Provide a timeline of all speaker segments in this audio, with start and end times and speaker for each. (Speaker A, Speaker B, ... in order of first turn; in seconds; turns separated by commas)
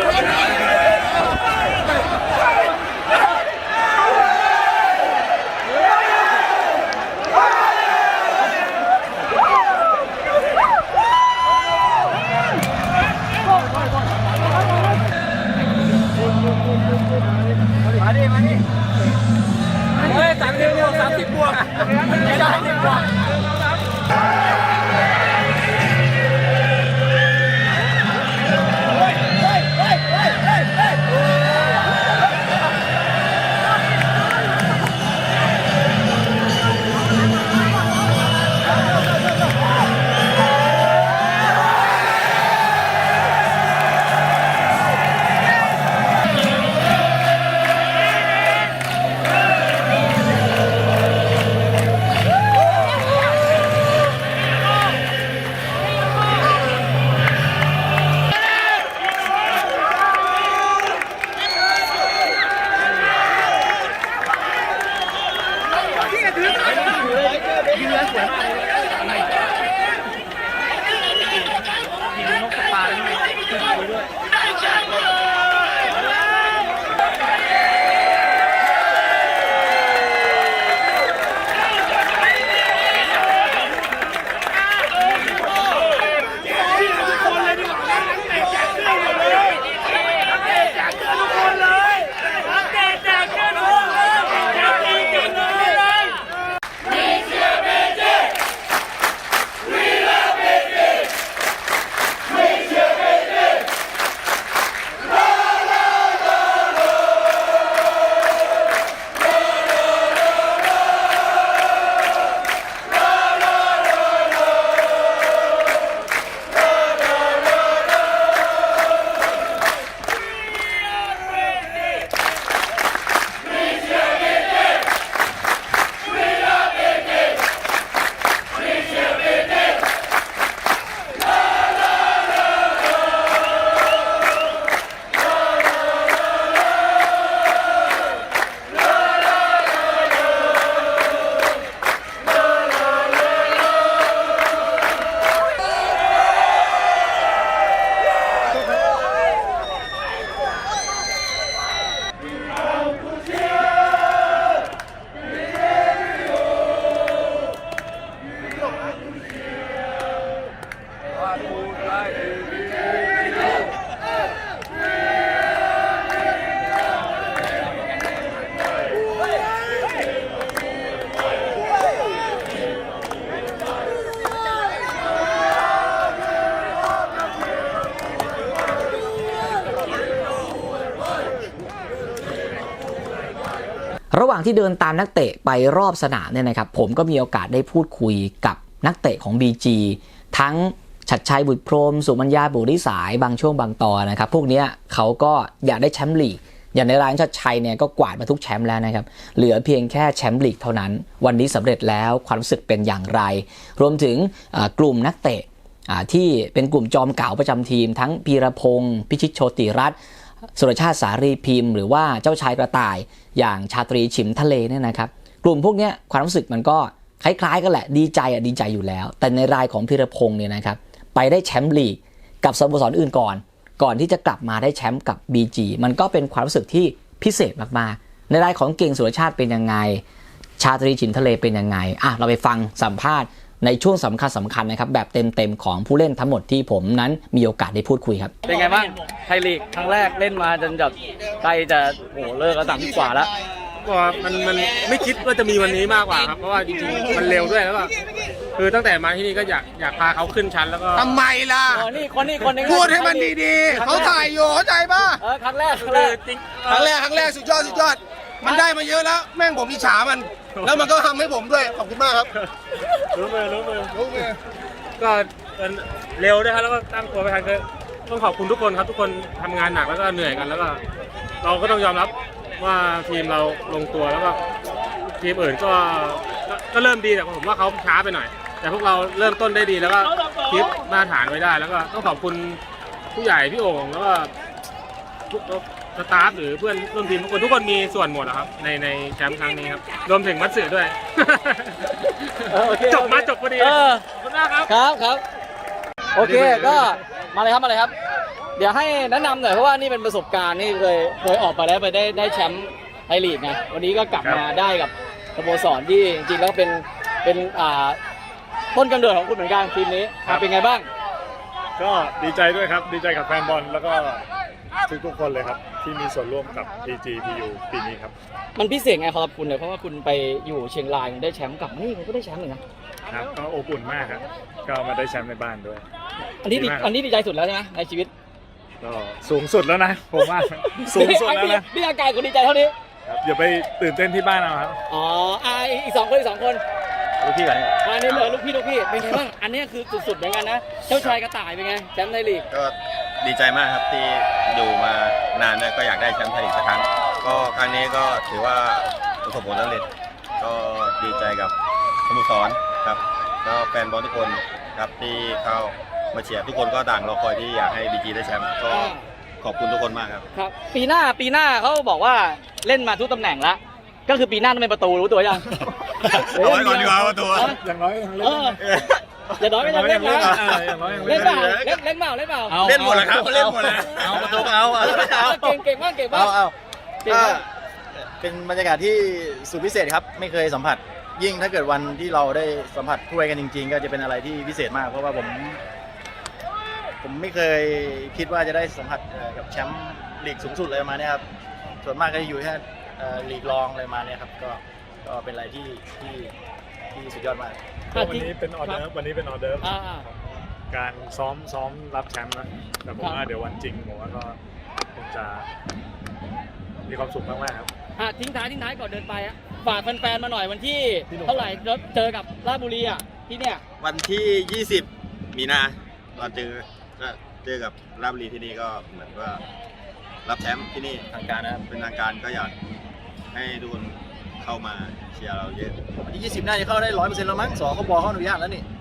Speaker A: 20.4-21.3, Speaker B: 184.1-209.9, Speaker B: 210.6-230.0, Speaker B: 230.6-238.3, Speaker A: 238.4-243.3, Speaker C: 243.8-247.9, Speaker C: 248.6-251.2, Speaker D: 250.9-251.9, Speaker A: 251.7-254.3, Speaker D: 252.5-255.2, Speaker A: 255.2-256.1, Speaker C: 255.8-256.9, Speaker D: 256.6-262.3, Speaker C: 260.6-260.9, Speaker E: 263.1-263.8, Speaker D: 263.9-264.4, Speaker C: 265.0-270.8, Speaker C: 271.4-274.4, Speaker C: 275.1-282.6, Speaker C: 283.1-284.3, Speaker C: 285.3-294.7, Speaker A: 292.5-294.0, Speaker A: 294.7-295.2, Speaker A: 296.1-297.9, Speaker E: 296.2-296.9, Speaker A: 298.6-308.0, Speaker E: 304.2-304.4, Speaker A: 308.7-310.9, Speaker E: 311.8-314.2, Speaker E: 314.9-318.1, Speaker A: 318.5-322.6, Speaker E: 323.1-325.9, Speaker A: 326.4-328.1, Speaker E: 326.5-326.9, Speaker E: 328.8-331.7, Speaker A: 330.2-332.7, Speaker E: 333.1-334.8, Speaker A: 334.9-336.6, Speaker F: 337.2-338.4, Speaker A: 337.8-342.4, Speaker G: 340.9-341.2, Speaker G: 342.5-349.9, Speaker G: 350.4-351.5, Speaker G: 352.1-360.2, Speaker A: 358.7-359.0, Speaker A: 360.3-365.5, Speaker G: 366.0-367.6, Speaker A: 366.1-367.6, Speaker E: 367.4-368.6, Speaker A: 368.2-368.6, Speaker G: 368.6-368.9, Speaker A: 369.4-372.7, Speaker E: 369.6-371.6, Speaker F: 370.1-371.8, Speaker G: 371.1-371.4, Speaker E: 372.5-374.4, Speaker G: 372.6-374.4, Speaker F: 372.7-375.6, Speaker A: 373.9-376.4, Speaker F: 376.1-376.5, Speaker A: 377.0-377.4, Speaker F: 377.1-377.5, Speaker F: 378.2-385.6, Speaker F: 387.0-391.2, Speaker F: 391.8-396.3, Speaker F: 396.9-397.6, Speaker E: 397.9-404.4, Speaker A: 397.9-398.8, Speaker A: 399.6-400.0, Speaker E: 404.9-405.5, Speaker E: 406.9-407.7, Speaker A: 408.0-413.6, Speaker E: 411.1-411.6, Speaker G: 413.8-419.4, Speaker G: 420.2-421.1, Speaker F: 421.1-421.6, Speaker G: 421.6-422.5, Speaker G: 423.3-425.8, Speaker F: 426.0-428.6